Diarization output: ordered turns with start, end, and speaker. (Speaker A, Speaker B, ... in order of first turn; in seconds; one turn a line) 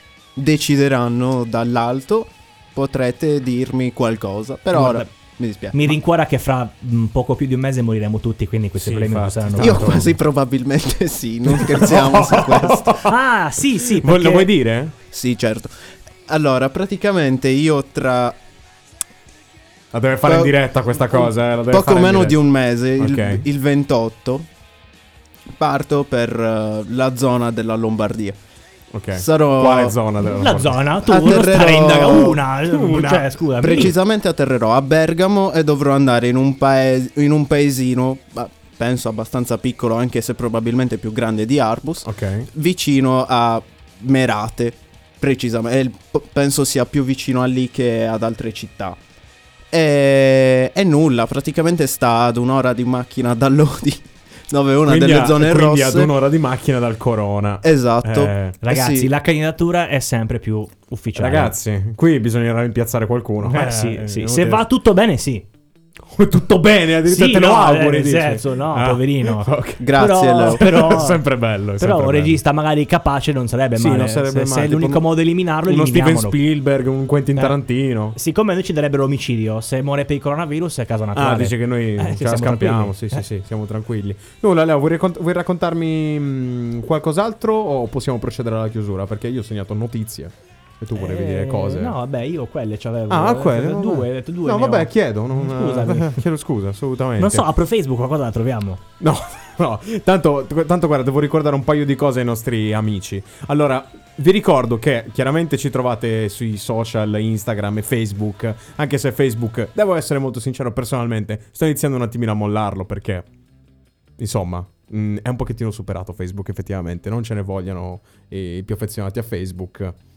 Speaker A: 0.3-5.8
Speaker B: 4.7-5.1
Speaker B: 5.7-10.1
Speaker C: 8.8-10.2
Speaker A: 9.6-13.0
Speaker C: 11.5-13.1
Speaker B: 12.9-14.5
Speaker C: 13.9-14.9
Speaker A: 15.1-15.7
Speaker A: 16.2-18.4
Speaker C: 19.9-22.4
Speaker A: 20.2-20.5
Speaker A: 21.1-24.5
Speaker C: 23.0-23.4
Speaker A: 25.6-28.4
Speaker C: 28.9-30.9
Speaker A: 29.1-29.9
Speaker B: 30.2-33.9
Speaker A: 31.0-32.4
Speaker C: 31.8-33.9
Speaker A: 33.6-49.0
Speaker C: 42.0-42.5
Speaker A: 49.7-56.1
Speaker C: 54.8-58.6
Speaker A: 57.6-59.1
Speaker B: 58.6-61.5
Speaker C: 61.1-64.6
Speaker B: 63.4-65.4
Speaker C: 66.1-72.4
Speaker B: 67.0-71.2
Speaker A: 69.8-70.7
Speaker B: 71.8-76.4
Speaker C: 73.8-75.1
Speaker C: 75.6-78.2
Speaker B: 78.1-83.2
Speaker C: 81.1-92.0
Speaker B: 90.9-96.2
Speaker C: 93.1-97.5
Speaker B: 97.2-98.8
Speaker C: 99.0-113.2
Speaker C: 114.2-120.0